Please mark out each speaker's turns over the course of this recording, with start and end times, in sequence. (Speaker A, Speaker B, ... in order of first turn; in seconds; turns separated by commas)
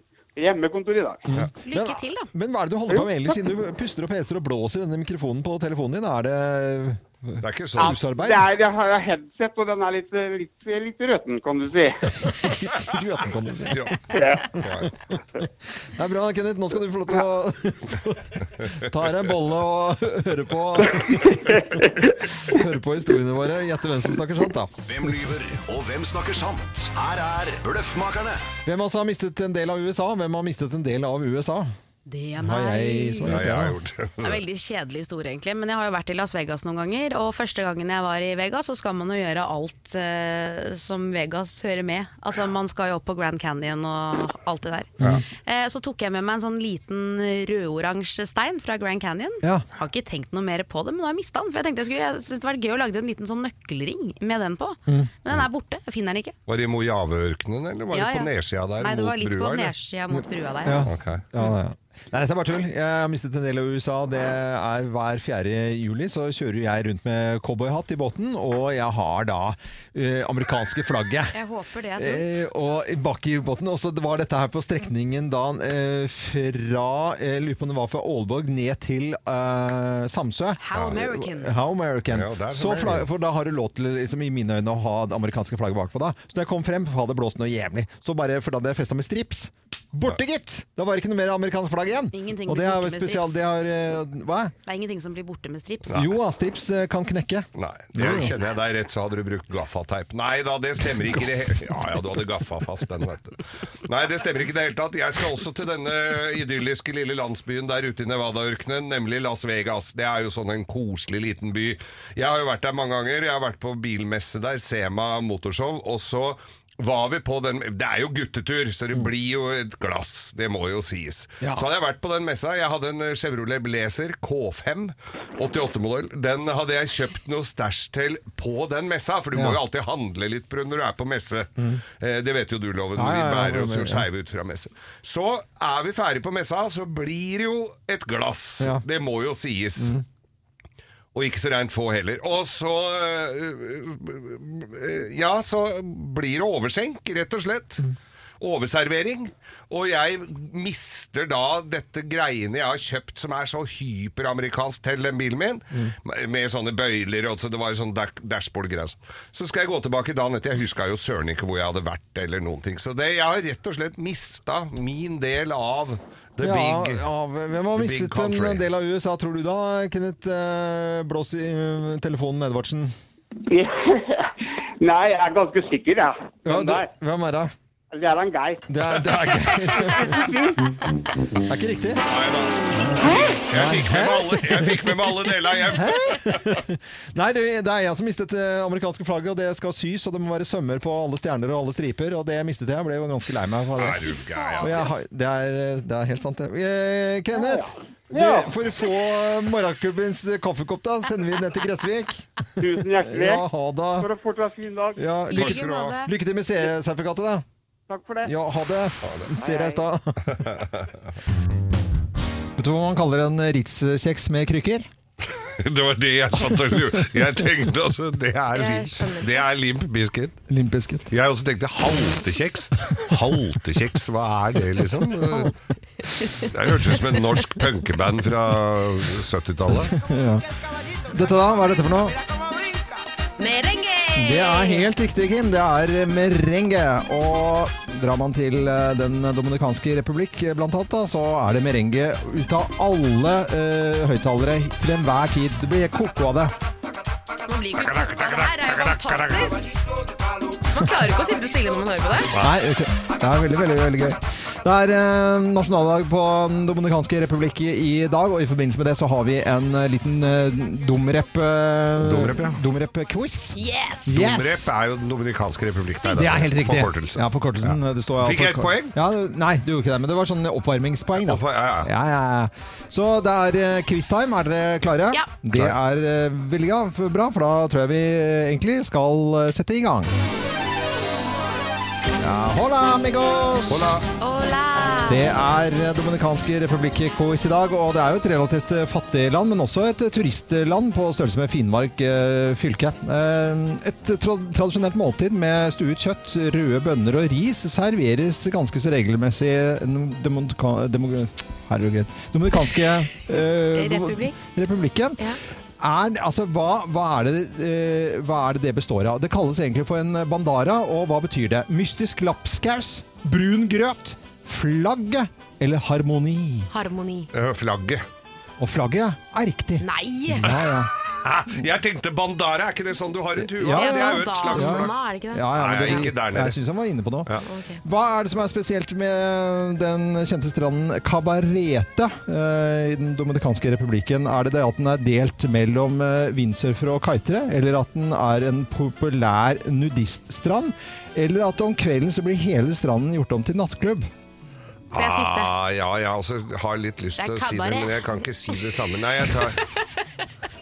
Speaker A: 0.4-1.3, Speaker B: 1.3-8.5, Speaker C: 1.6-2.3, Speaker D: 7.4-8.0, Speaker A: 7.8-12.2, Speaker B: 12.2-15.2, Speaker D: 13.7-14.9, Speaker A: 14.1-14.6, Speaker B: 15.8-21.8, Speaker A: 21.0-22.1, Speaker B: 22.5-24.8, Speaker E: 24.9-28.4, Speaker B: 28.6-31.7, Speaker C: 32.1-33.4, Speaker B: 32.4-33.8, Speaker D: 33.3-34.4, Speaker C: 34.2-44.9, Speaker C: 45.4-56.4, Speaker D: 56.5-59.7, Speaker C: 57.9-60.9, Speaker B: 60.6-71.3, Speaker D: 60.9-61.2, Speaker C: 71.3-72.3, Speaker B: 72.0-94.5, Speaker C: 80.6-81.5, Speaker D: 82.1-83.1, Speaker C: 92.1-93.4, Speaker C: 94.7-96.1, Speaker B: 95.9-98.3, Speaker D: 97.5-140.0, Speaker B: 121.4-121.7, Speaker B: 129.3-129.6, Speaker B: 131.6-131.8, Speaker B: 133.0-134.1, Speaker B: 139.8-140.0, Speaker D: 141.1-147.9, Speaker D: 148.4-167.1, Speaker B: 166.4-172.9, Speaker D: 167.8-168.6, Speaker A: 173.5-176.9, Speaker B: 176.5-177.5, Speaker A: 177.9-178.6, Speaker B: 178.7-180.4, Speaker A: 179.8-180.6, Speaker B: 181.4-182.0, Speaker D: 182.0-186.5, Speaker B: 182.7-204.1, Speaker D: 193.8-194.9, Speaker C: 194.2-194.9, Speaker A: 197.3-198.5, Speaker A: 202.6-203.4, Speaker A: 204.0-205.0, Speaker B: 205.0-207.4, Speaker D: 205.3-206.0, Speaker C: 205.3-206.1, Speaker A: 207.9-208.3, Speaker B: 208.2-210.5, Speaker D: 209.0-209.3, Speaker C: 209.4-209.8, Speaker D: 210.3-211.0, Speaker B: 212.6-214.9, Speaker D: 215.4-220.4, Speaker B: 216.6-217.0, Speaker C: 218.5-219.4, Speaker B: 220.5-221.1, Speaker D: 221.1-225.6, Speaker D: 226.3-230.0, Speaker B: 229.7-230.5, Speaker B: 231.1-232.2, Speaker C: 233.4-234.8, Speaker B: 234.1-246.5, Speaker C: 247.5-249.7, Speaker D: 247.8-249.6, Speaker C: 250.7-252.3, Speaker B: 252.4-264.7, Speaker D: 262.0-262.6, Speaker C: 263.6-264.1, Speaker D: 264.1-269.0, Speaker B: 266.1-280.1, Speaker D: 271.2-271.9, Speaker B: 282.1-284.0, Speaker D: 283.7-284.1, Speaker C: 284.2-285.4, Speaker B: 285.1-316.7, Speaker C: 303.7-304.4, Speaker C: 316.7-317.3, Speaker D: 317.3-318.0, Speaker B: 318.6-320.9, Speaker C: 319.8-320.5, Speaker D: 320.5-324.9, Speaker B: 323.4-344.1, Speaker C: 323.7-326.1, Speaker D: 325.5-326.6, Speaker C: 327.4-327.8, Speaker D: 344.9-349.6, Speaker C: 344.9-345.5, Speaker C: 347.2-348.2